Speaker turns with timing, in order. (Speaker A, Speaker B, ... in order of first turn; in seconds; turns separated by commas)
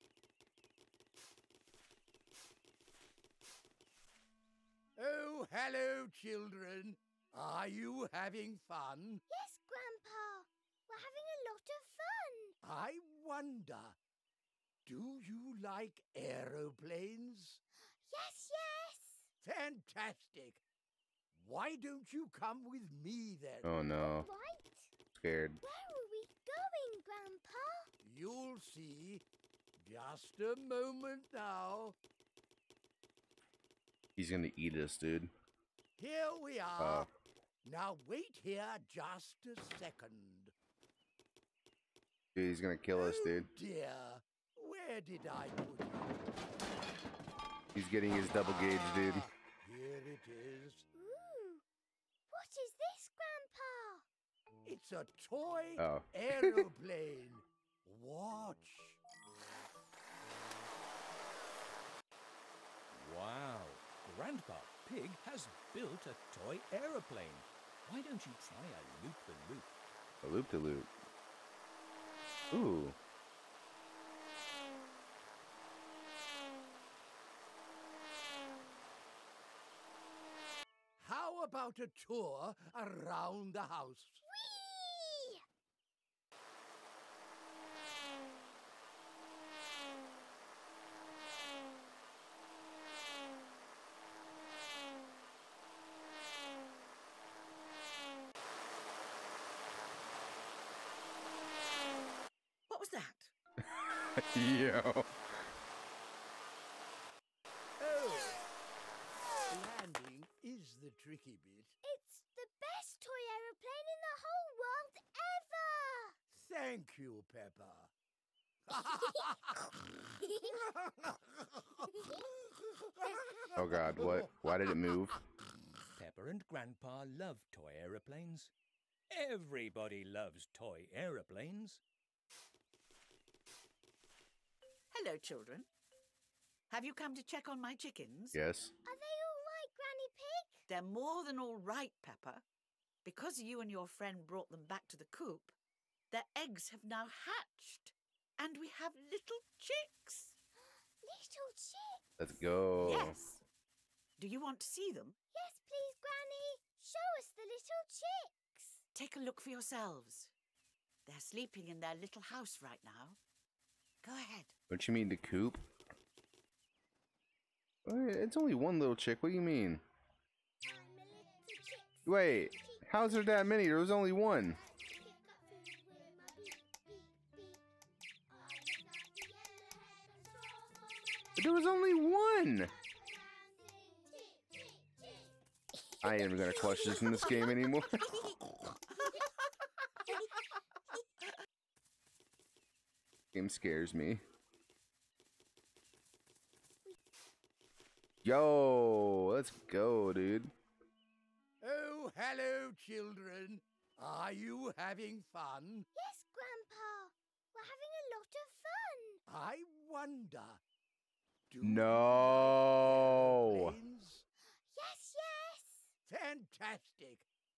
Speaker A: 5.0-9.2, Speaker B: 9.3-12.6, Speaker A: 12.6-14.0, Speaker A: 14.9-17.6, Speaker B: 18.1-19.3, Speaker A: 19.4-20.6, Speaker A: 21.3-23.7, Speaker C: 23.6-24.3, Speaker B: 23.8-24.9, Speaker C: 25.1-25.6, Speaker B: 25.6-27.9, Speaker A: 28.0-29.2, Speaker A: 29.8-32.0, Speaker C: 34.1-35.3, Speaker A: 36.0-37.1, Speaker C: 36.8-37.1, Speaker A: 37.6-40.5, Speaker C: 42.3-43.5, Speaker A: 42.9-46.2, Speaker C: 47.7-49.3, Speaker A: 48.4-50.8, Speaker B: 50.9-51.6, Speaker B: 52.3-54.0, Speaker A: 54.6-59.0, Speaker C: 55.8-56.6, Speaker D: 62.9-69.7, Speaker C: 70.2-70.9, Speaker C: 72.5-73.0, Speaker A: 81.0-84.2, Speaker B: 84.2-85.4, Speaker E: 102.7-103.3, Speaker C: 104.1-105.1, Speaker A: 107.8-108.4, Speaker A: 109.5-111.7, Speaker B: 111.8-116.2, Speaker A: 116.3-117.9, Speaker A: 118.7-119.7, Speaker A: 120.4-121.8, Speaker A: 123.0-124.3, Speaker C: 123.6-125.2, Speaker D: 126.0-128.5, Speaker D: 129.1-131.8, Speaker E: 134.9-135.7, Speaker E: 136.7-138.4, Speaker C: 138.3-138.7, Speaker B: 138.8-140.6, Speaker E: 140.7-142.4, Speaker E: 143.0-145.5, Speaker E: 146.1-150.3, Speaker B: 150.6-152.4, Speaker C: 152.2-153.2, Speaker E: 152.8-153.4, Speaker E: 154.2-155.2, Speaker B: 155.3-158.8, Speaker E: 158.9-160.3, Speaker E: 161.1-163.2, Speaker E: 164.0-164.5, Speaker C: 164.7-165.6, Speaker C: 167.8-169.8, Speaker B: 170.6-172.9, Speaker C: 172.0-174.6, Speaker B: 174.6-177.6, Speaker B: 178.3-181.4, Speaker C: 181.4-182.7, Speaker B: 182.9-185.3, Speaker B: 185.8-187.8, Speaker C: 186.0-188.1, Speaker C: 193.3-194.2, Speaker C: 198.2-200.5, Speaker A: 201.6-205.9, Speaker B: 205.9-209.2, Speaker A: 209.3-210.6, Speaker A: 211.5-214.2, Speaker C: 211.6-213.7, Speaker B: 214.7-215.9, Speaker A: 216.1-217.2